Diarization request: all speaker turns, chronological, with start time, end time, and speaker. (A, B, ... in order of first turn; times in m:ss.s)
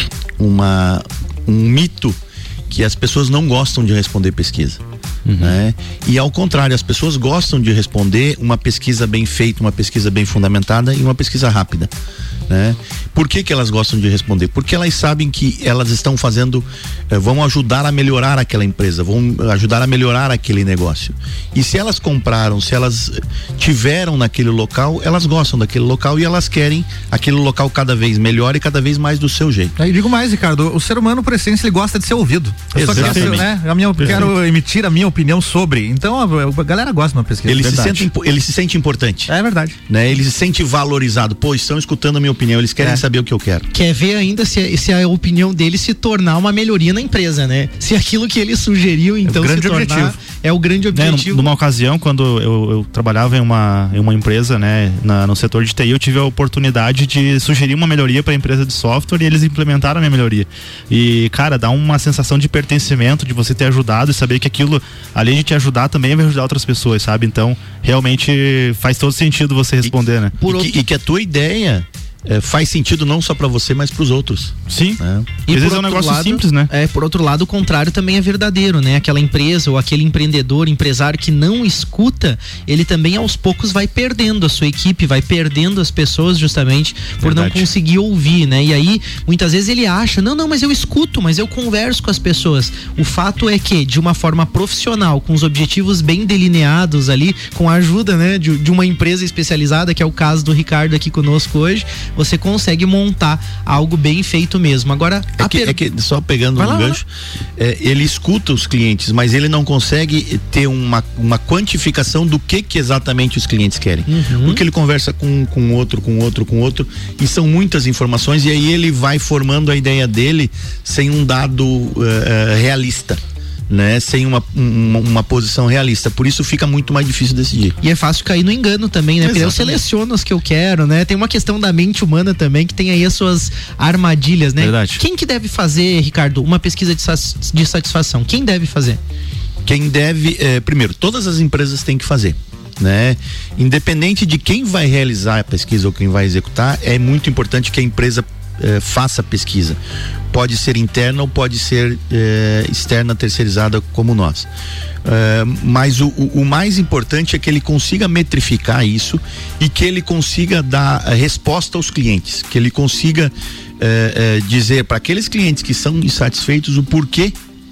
0:00.4-0:02.2 A
0:02.7-0:04.8 A
0:05.2-0:05.6 B
0:05.4-0:11.9 A
0:12.5-0:29.7 A
0:29.8-0:37.9 C
0:32.7-0:33.5 A
0:32.9-0:34.3 B
0:34.0-0:34.3 A
0:37.5-0:39.3 A
0:37.6-0:38.0 B
0:39.3-0:39.8 C
0:39.9-0:43.7 A
0:43.7-0:51.5 D
0:49.3-0:50.2 C
0:50.9-1:10.3 B
1:09.8-1:15.3 A
1:10.4-1:10.7 D
1:14.7-1:16.7 B
1:15.5-1:45.8 D
1:27.2-1:27.7 B
1:45.4-1:47.0 A
1:46.6-1:47.0 D
1:47.6-2:07.8 A
1:54.1-1:54.6 D
2:07.8-2:19.0 D
2:09.2-2:09.8 A
2:14.6-2:15.0 B
2:19.6-2:29.8 A
2:30.3-2:34.5 A
2:35.0-2:47.3 A